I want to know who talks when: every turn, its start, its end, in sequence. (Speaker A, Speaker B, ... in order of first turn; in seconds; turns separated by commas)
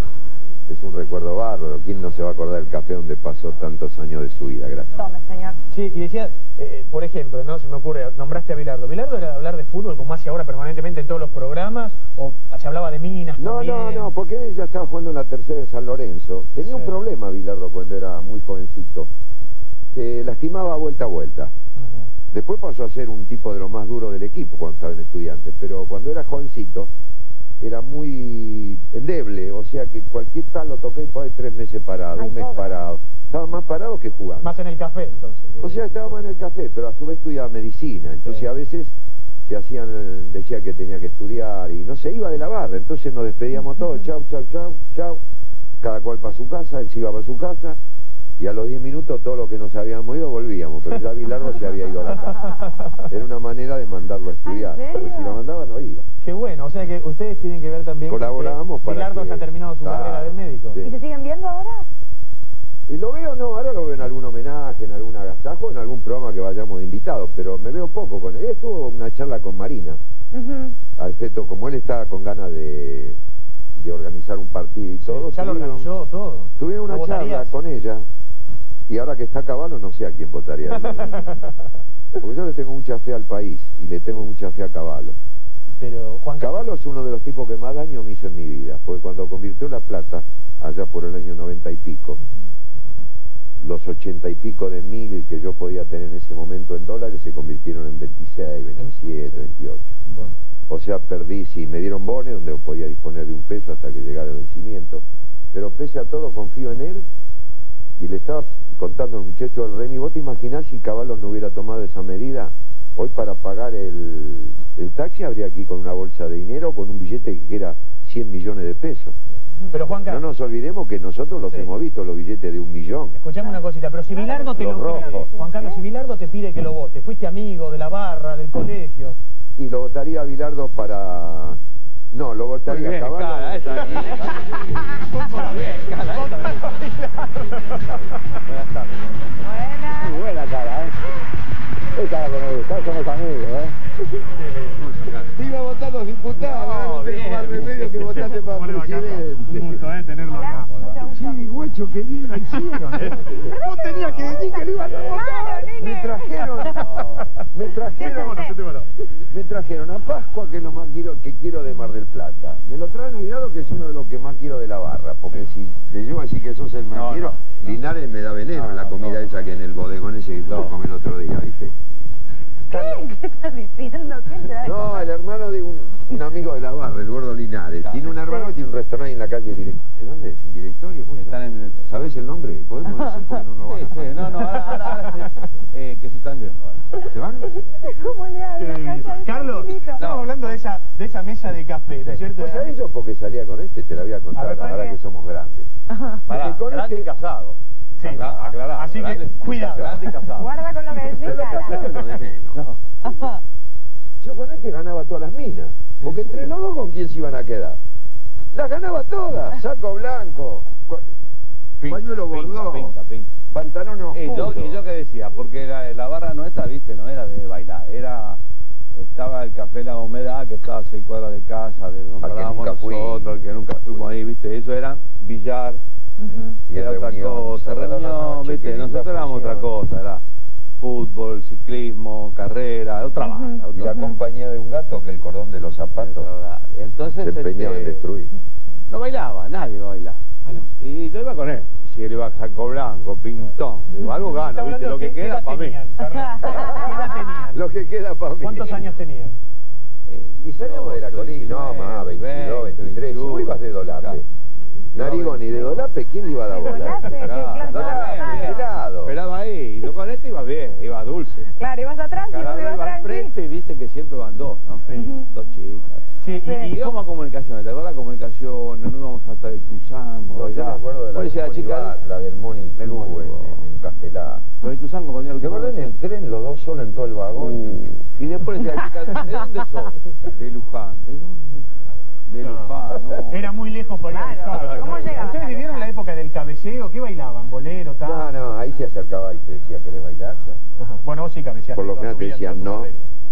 Speaker A: 0.7-4.9, Speaker B: 4.9-5.6, Speaker C: 5.7-14.1, Speaker A: 13.4-19.1, Speaker C: 16.6-17.0, Speaker A: 19.9-21.5, Speaker C: 21.8-22.1, Speaker A: 22.3-26.9, Speaker A: 27.6-34.5, Speaker B: 32.1-32.8, Speaker C: 34.4-36.2, Speaker A: 35.6-39.0, Speaker A: 39.5-45.2, Speaker A: 45.8-47.8, Speaker A: 48.4-56.0, Speaker C: 52.4-53.0, Speaker B: 54.4-55.4, Speaker C: 56.2-60.8, Speaker A: 58.1-61.0, Speaker B: 60.8-61.9, Speaker A: 62.9-70.0, Speaker B: 70.3-70.8, Speaker A: 71.0-73.2, Speaker A: 73.8-75.9, Speaker C: 75.0-77.5, Speaker A: 76.6-78.1, Speaker A: 78.9-81.3, Speaker C: 80.8-81.5, Speaker A: 82.2-85.2, Speaker C: 85.8-86.7, Speaker A: 86.4-92.2, Speaker A: 93.6-99.9, Speaker C: 98.8-99.4, Speaker C: 100.1-100.4, Speaker A: 100.7-107.1, Speaker A: 108.0-119.1, Speaker C: 119.7-120.2, Speaker A: 120.0-123.2, Speaker C: 121.5-121.7, Speaker C: 123.2-129.2, Speaker B: 123.4-125.8, Speaker D: 124.6-125.3, Speaker A: 129.6-131.6, Speaker A: 132.1-134.3, Speaker D: 132.7-141.1, Speaker C: 134.9-137.8, Speaker B: 139.4-140.2, Speaker D: 142.1-143.8, Speaker C: 144.2-144.9, Speaker D: 144.8-148.4, Speaker C: 146.3-150.8, Speaker A: 146.7-149.8, Speaker B: 150.3-151.5, Speaker A: 151.1-153.6, Speaker C: 152.3-155.7, Speaker B: 153.4-153.9, Speaker D: 154.1-155.1, Speaker B: 154.5-157.0, Speaker A: 155.8-156.9, Speaker D: 156.8-157.2, Speaker C: 157.0-158.9, Speaker A: 157.5-158.5, Speaker B: 158.0-158.6, Speaker A: 159.3-171.7, Speaker D: 166.9-167.8, Speaker D: 168.5-169.3, Speaker D: 170.4-170.7, Speaker B: 172.7-175.1, Speaker A: 172.7-173.0, Speaker A: 174.6-184.2, Speaker D: 177.8-178.2, Speaker B: 178.2-178.5, Speaker D: 181.2-181.9, Speaker D: 183.6-187.0, Speaker C: 184.3-185.3, Speaker A: 187.0-187.6, Speaker B: 187.6-190.0, Speaker C: 188.6-192.8, Speaker D: 189.9-190.6, Speaker A: 192.3-195.7, Speaker C: 194.3-195.0, Speaker B: 195.9-196.2, Speaker D: 196.2-200.5, Speaker A: 196.3-197.1, Speaker C: 198.0-200.2, Speaker B: 200.3-202.0, Speaker A: 201.0-202.6, Speaker D: 202.5-202.8, Speaker B: 203.0-203.4, Speaker A: 204.2-207.8, Speaker C: 206.0-206.5, Speaker A: 208.5-211.1, Speaker D: 211.8-213.3, Speaker A: 211.8-212.9, Speaker A: 213.5-214.8, Speaker D: 214.1-218.4, Speaker D: 218.9-225.8, Speaker A: 222.2-224.1, Speaker B: 226.2-226.6, Speaker A: 226.7-229.7, Speaker D: 226.7-230.2, Speaker D: 230.8-234.1, Speaker B: 233.2-234.2, Speaker A: 233.7-236.3, Speaker D: 235.9-238.1, Speaker A: 237.2-238.3, Speaker D: 238.9-245.8, Speaker C: 244.3-247.6, Speaker B: 246.0-246.9, Speaker A: 246.4-248.9, Speaker C: 248.4-249.4, Speaker D: 250.1-254.2, Speaker A: 250.4-254.2, Speaker D: 254.9-256.0, Speaker A: 254.9-259.1, Speaker B: 256.4-258.7, Speaker D: 257.1-261.5, Speaker B: 261.5-263.3, Speaker D: 262.2-266.0, Speaker C: 264.9-265.2, Speaker B: 264.9-265.3, Speaker C: 266.2-266.9, Speaker B: 266.4-266.7, Speaker D: 266.7-272.0, Speaker A: 270.3-274.4, Speaker D: 272.8-273.7, Speaker D: 274.6-276.0, Speaker A: 275.4-278.0, Speaker D: 277.3-283.5, Speaker C: 282.4-288.5, Speaker B: 284.1-285.9, Speaker D: 284.5-285.1, Speaker A: 288.0-290.4, Speaker C: 290.8-293.0, Speaker A: 291.7-292.9